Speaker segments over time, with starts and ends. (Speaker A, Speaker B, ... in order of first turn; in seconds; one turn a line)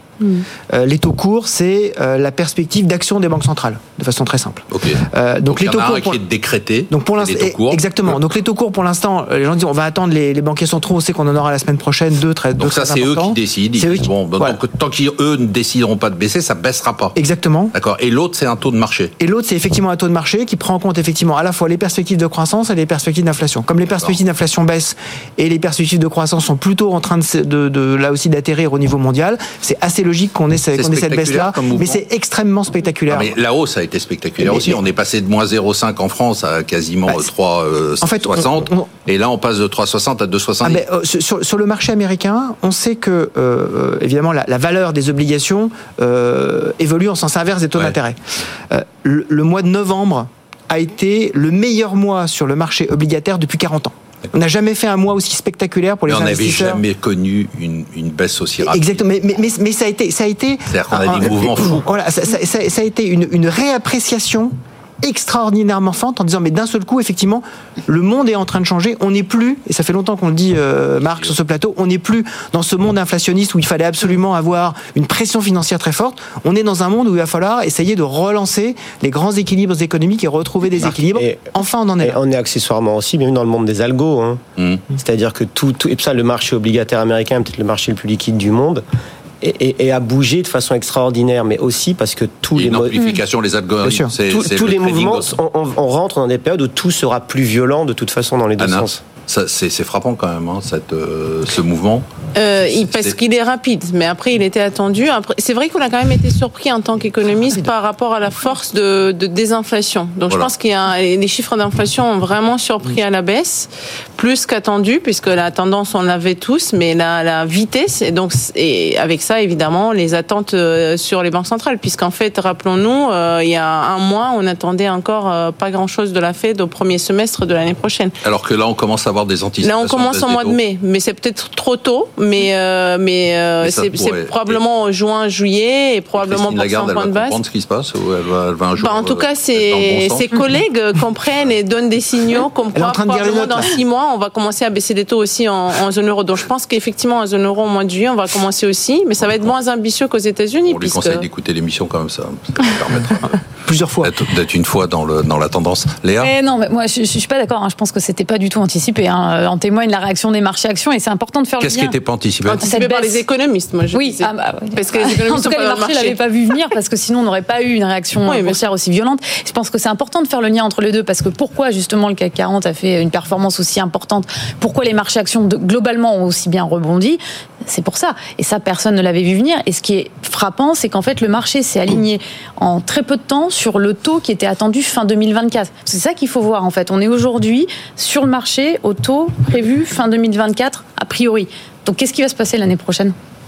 Speaker A: 0.7-6.2
Speaker B: 4.7-8.2
Speaker A: 6.9-14.6
Speaker B: 12.6-17.1
Speaker A: 17.1-17.7
Speaker B: 17.7-19.1
Speaker A: 19.2-33.3
Speaker B: 30.7-32.0
Speaker B: 33.1-40.8
Speaker A: 34.4-34.8
Speaker A: 38.0-38.9
Speaker A: 40.6-48.2
Speaker A: 48.7-56.8
Speaker B: 56.1-59.0
Speaker A: 58.6-82.2
Speaker B: 60.7-61.9
Speaker C: 80.9-84.4
Speaker B: 84.6-84.8
Speaker C: 84.9-88.8
Speaker C: 89.4-93.0
Speaker B: 92.5-95.3
Speaker A: 93.8-94.1
Speaker C: 94.2-99.0
Speaker B: 98.6-103.2
Speaker D: 102.3-128.1
Speaker B: 128.2-130.6
Speaker D: 129.6-137.4
Speaker B: 133.6-134.6
Speaker B: 136.2-140.3
Speaker D: 138.8-151.2
Speaker A: 142.7-143.7
Speaker B: 149.2-149.5
Speaker B: 150.6-153.4
Speaker A: 153.6-154.2
Speaker B: 154.0-156.3
Speaker E: 156.2-162.0
Speaker B: 161.6-162.7
Speaker D: 162.4-166.6
Speaker E: 162.6-163.2
Speaker E: 163.9-193.2
Speaker D: 168.3-168.6